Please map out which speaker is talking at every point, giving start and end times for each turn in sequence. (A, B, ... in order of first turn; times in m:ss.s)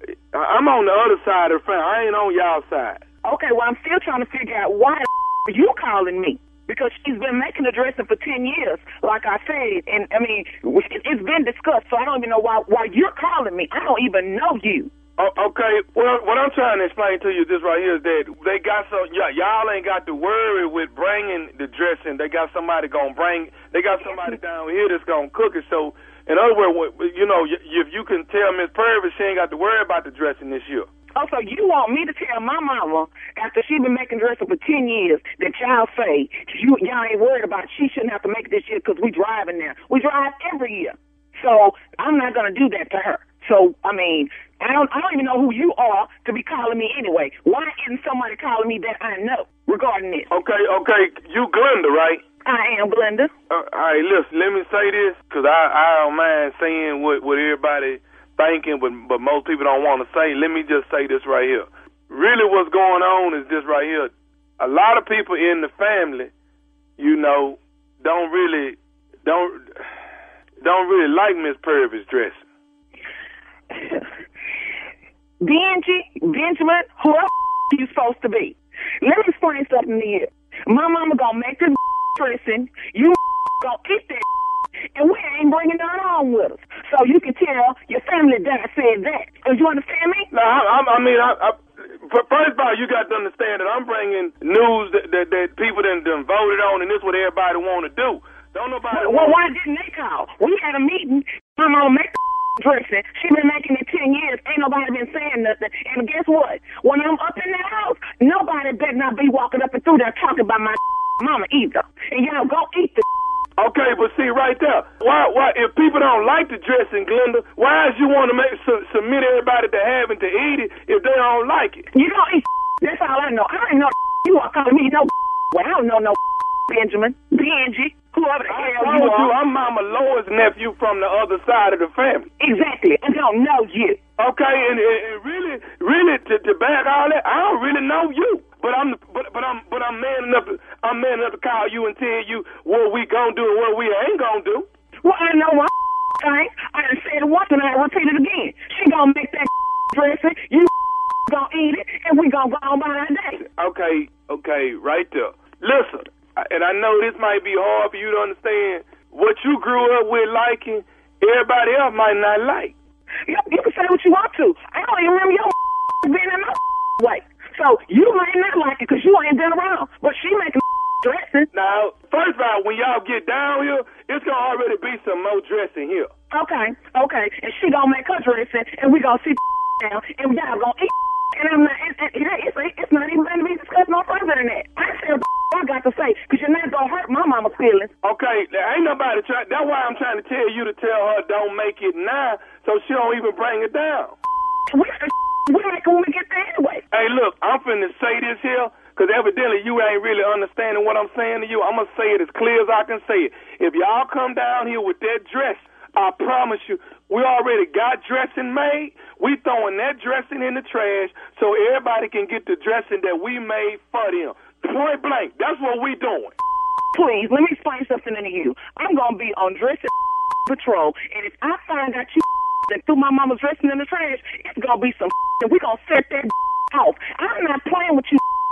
0:00.3-0:03.0 A
0:03.2-0:14.9 B
0:15.2-0:30.9 A
0:24.0-0:24.4 B
0:31.2-0:50.3 B
0:50.3-0:52.2 A
0:52.4-0:53.3 B
0:53.5-1:06.3 A
1:07.0-1:09.6 A
1:10.6-1:12.4 A
1:13.7-1:14.0 B
1:15.4-1:24.2 B
1:24.9-1:30.3 B
1:30.3-1:39.4 A
1:38.9-1:53.0 B
1:53.6-2:01.8 A
2:01.9-2:09.3 B
2:08.5-2:12.3 A
2:12.4-2:14.0 B
2:14.2-2:24.6 A
2:25.0-2:30.7 B
2:31.3-2:33.4 B
2:33.4-2:42.7 A
2:43.3-2:51.5 B
2:51.5-2:56.1 A
2:56.3-3:07.9 B
3:08.0-3:14.1 A
3:14.7-3:16.8 B
3:16.9-3:36.3 A
3:36.9-3:39.9 B
3:40.5-3:48.2 B